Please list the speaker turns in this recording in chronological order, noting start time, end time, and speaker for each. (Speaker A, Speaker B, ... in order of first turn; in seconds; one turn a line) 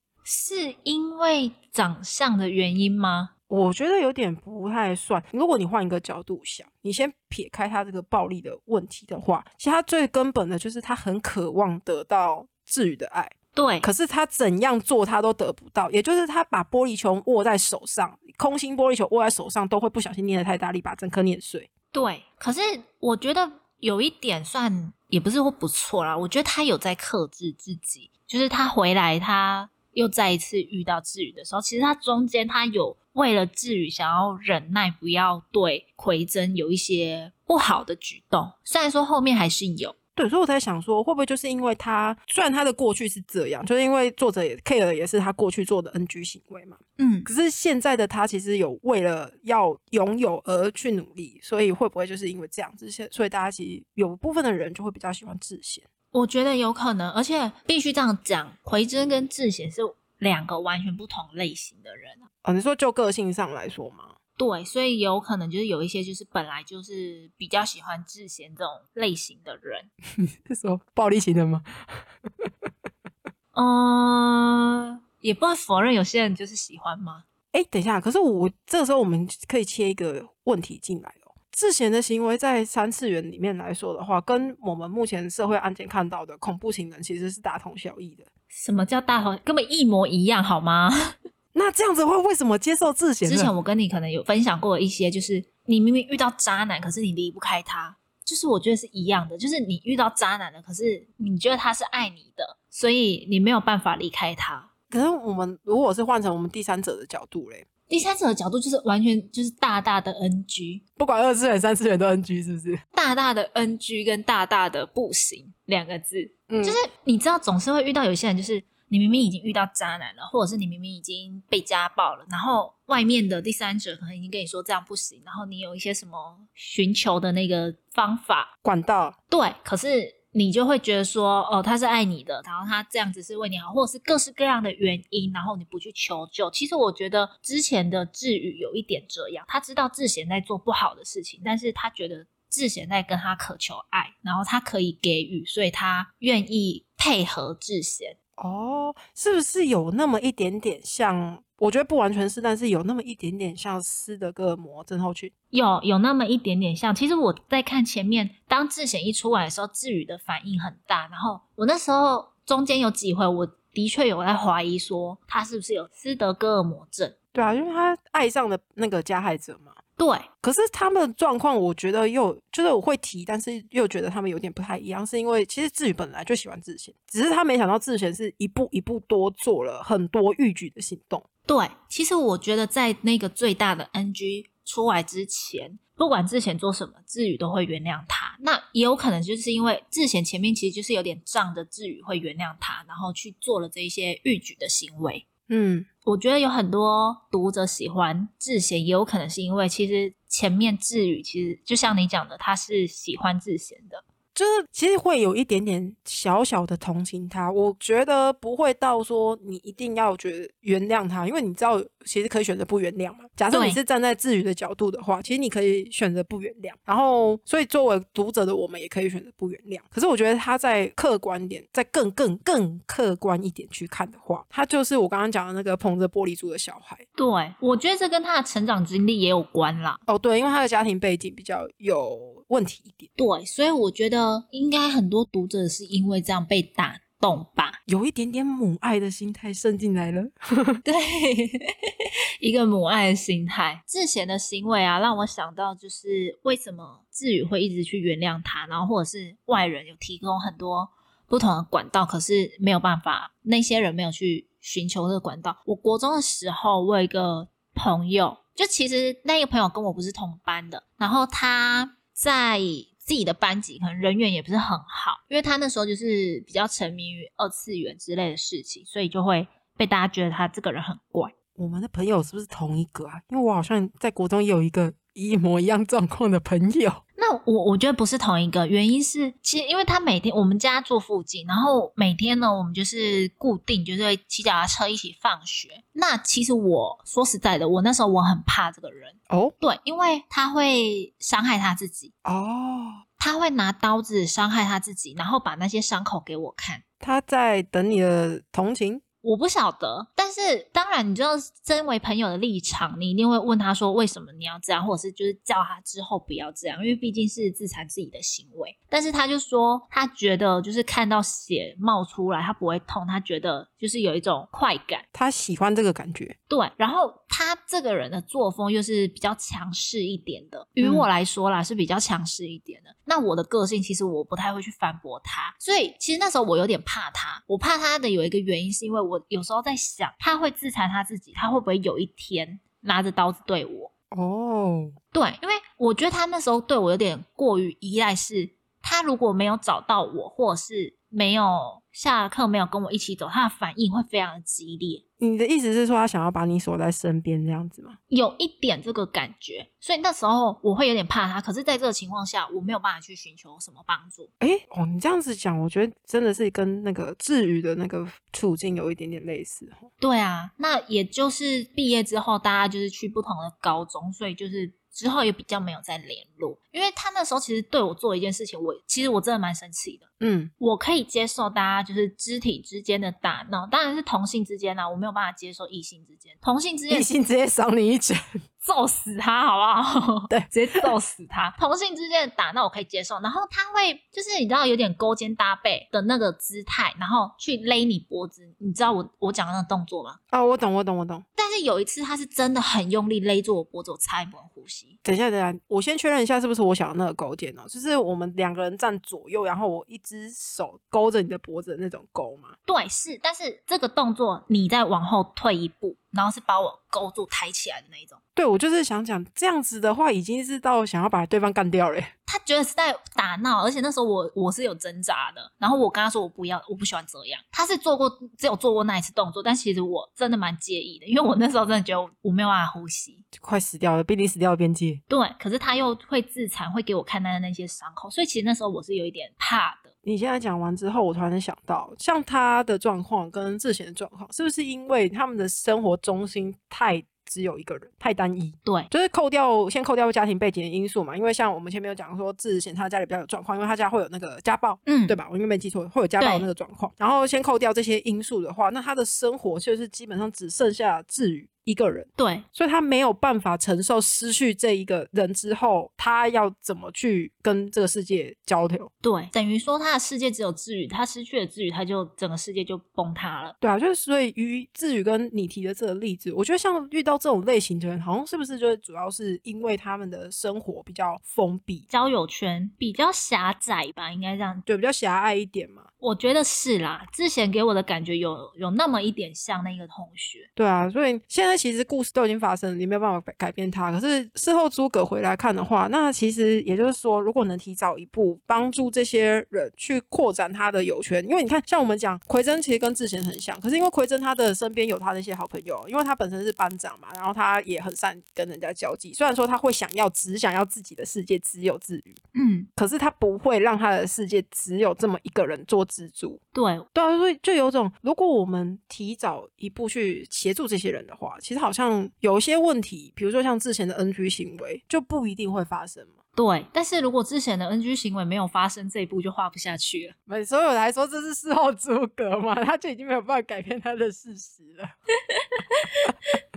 Speaker A: 0.2-3.3
Speaker B: 3.5-21.7
Speaker A: 13.6-13.9
Speaker A: 21.9-40.0
Speaker B: 40.2-55.9
Speaker A: 47.0-47.3
Speaker A: 56.1-62.3
Speaker B: 62.4-64.1
Speaker A: 64.4-69.9
Speaker B: 70.2-71.7
Speaker A: 73.5-77.2
Speaker B: 77.5-88.3
Speaker A: 88.5-91.1
Speaker B: 91.5-93.5
Speaker A: 93.2-104.7
Speaker B: 104.9-107.7
Speaker A: 107.9-110.8
Speaker B: 111.0-112.8
Speaker A: 112.9-128.5
Speaker B: 116.5-116.8
Speaker B: 128.6-129.2
Speaker A: 129.3-148.2
Speaker B: 148.4-155.3
Speaker A: 155.5-167.2
Speaker B: 167.3-169.8
Speaker A: 170.0-170.3
Speaker B: 170.4-181.2
Speaker A: 181.5-195.2
Speaker B: 195.5-195.9
Speaker A: 196.0-204.0
Speaker B: 204.3-227.0
Speaker A: 213.5-213.8
Speaker A: 227.2-230.0
Speaker B: 230.1-233.1
Speaker A: 233.2-237.8
Speaker B: 237.9-240.8
Speaker A: 240.8-241.7
Speaker A: 242.4-271.3
Speaker B: 271.6-277.0
Speaker A: 277.2-292.1
Speaker B: 292.2-293.0
Speaker A: 293.2-296.8
Speaker B: 297.0-299.0
Speaker A: 299.2-315.0
Speaker B: 315.1-316.4
Speaker A: 316.5-333.9
Speaker B: 320.8-321.1
Speaker B: 334.1-334.9
Speaker A: 335.1-345.0
Speaker B: 345.2-348.0
Speaker A: 348.1-354.3
Speaker B: 354.4-359.9
Speaker A: 360.0-370.1
Speaker B: 370.2-370.5
Speaker A: 370.6-377.1
Speaker B: 376.9-378.2
Speaker A: 378.6-390.2
Speaker B: 380.3-380.9
Speaker B: 390.3-391.2
Speaker A: 391.4-395.0
Speaker B: 395.0-402.5
Speaker A: 402.7-408.2
Speaker B: 408.4-412.1
Speaker A: 412.3-423.2
Speaker B: 423.3-425.0
Speaker A: 425.1-429.9
Speaker B: 430.0-458.9
Speaker A: 444.9-445.2
Speaker A: 446.2-446.5
Speaker A: 452.2-452.4
Speaker A: 459.0-463.5
Speaker B: 463.6-471.9
Speaker A: 471.9-474.6
Speaker B: 474.7-475.9
Speaker A: 476.0-480.5
Speaker B: 480.6-502.2
Speaker A: 502.3-502.7
Speaker B: 502.8-506.4
Speaker A: 506.5-506.9
Speaker B: 506.9-516.1
Speaker A: 516.4-520.1
Speaker B: 520.3-524.9
Speaker A: 525.3-526.4